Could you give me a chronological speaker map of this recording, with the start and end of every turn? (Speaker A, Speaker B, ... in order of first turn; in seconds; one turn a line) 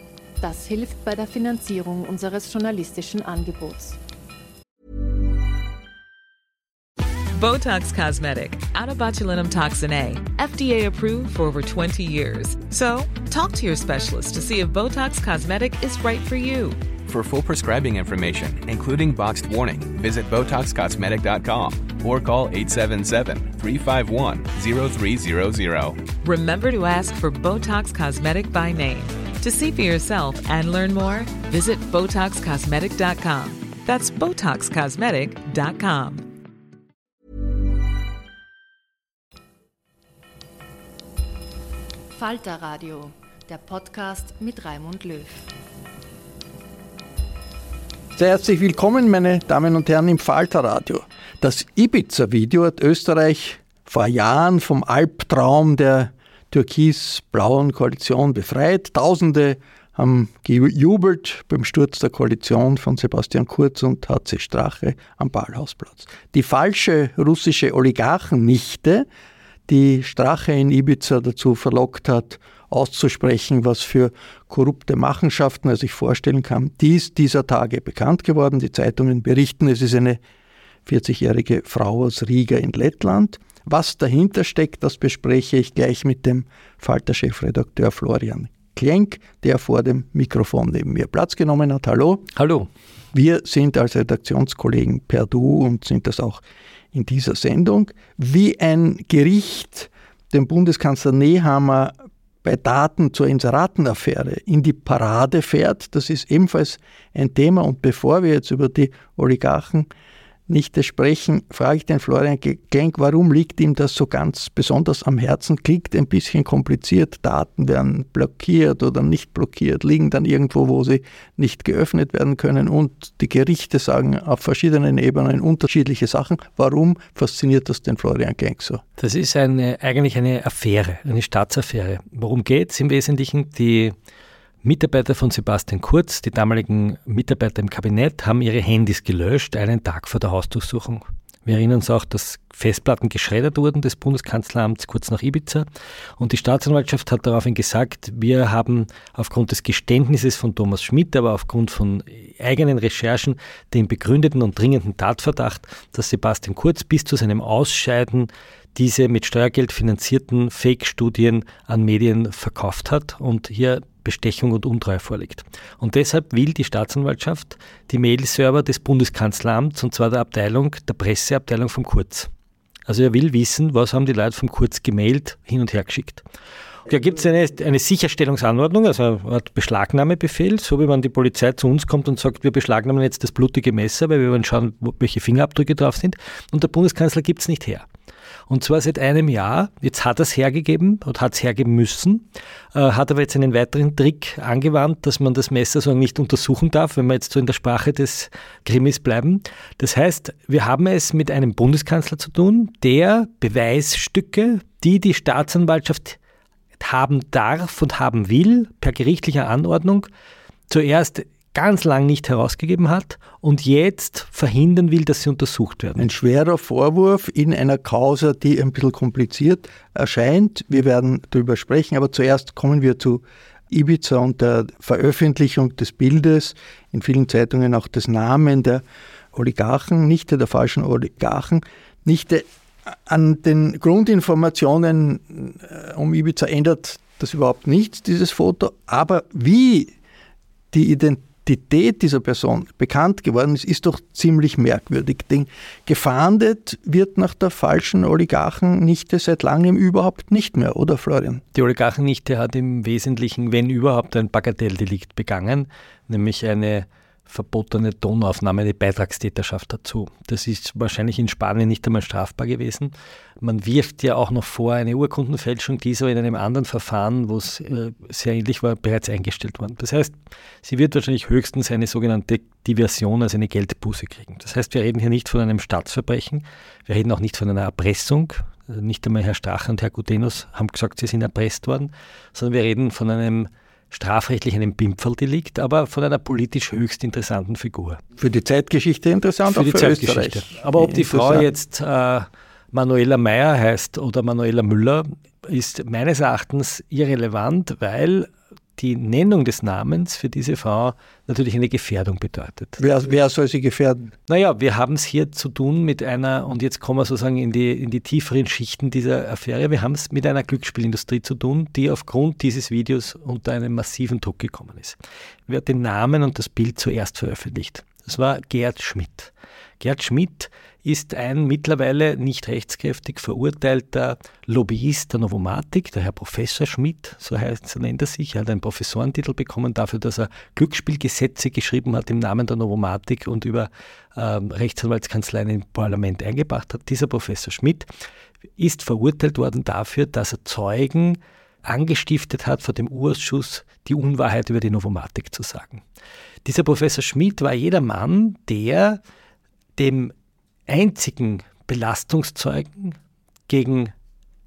Speaker A: 0.4-4.0
Speaker B: 7.3-16.8
Speaker C: 17.1-26.0
Speaker B: 26.2-36.3
Speaker A: 42.1-45.5
Speaker D: 48.2-69.1
Speaker D: 69.7-80.2
Speaker D: 80.9-92.3
Speaker E: 92.3-92.7
Speaker D: 93.1-109.9
Speaker D: 110.5-128.8
Speaker E: 129.0-133.9
Speaker E: 134.6-145.7
Speaker E: 146.2-172.3
Speaker E: 172.9-176.2
Speaker E: 176.9-187.8
Speaker E: 188.5-206.2
Speaker E: 206.8-210.1
Speaker E: 210.7-216.1
Speaker D: 216.0-239.9
Speaker D: 240.7-251.4
Speaker E: 251.5-288.0
Speaker D: 288.2-291.5
Speaker E: 289.5-302.8
Speaker D: 302.8-304.1
Speaker E: 304.3-337.9
Speaker E: 338.6-345.8
Speaker E: 346.4-349.0
Speaker E: 349.8-350.1
Speaker E: 350.7-353.0
Speaker E: 353.5-353.9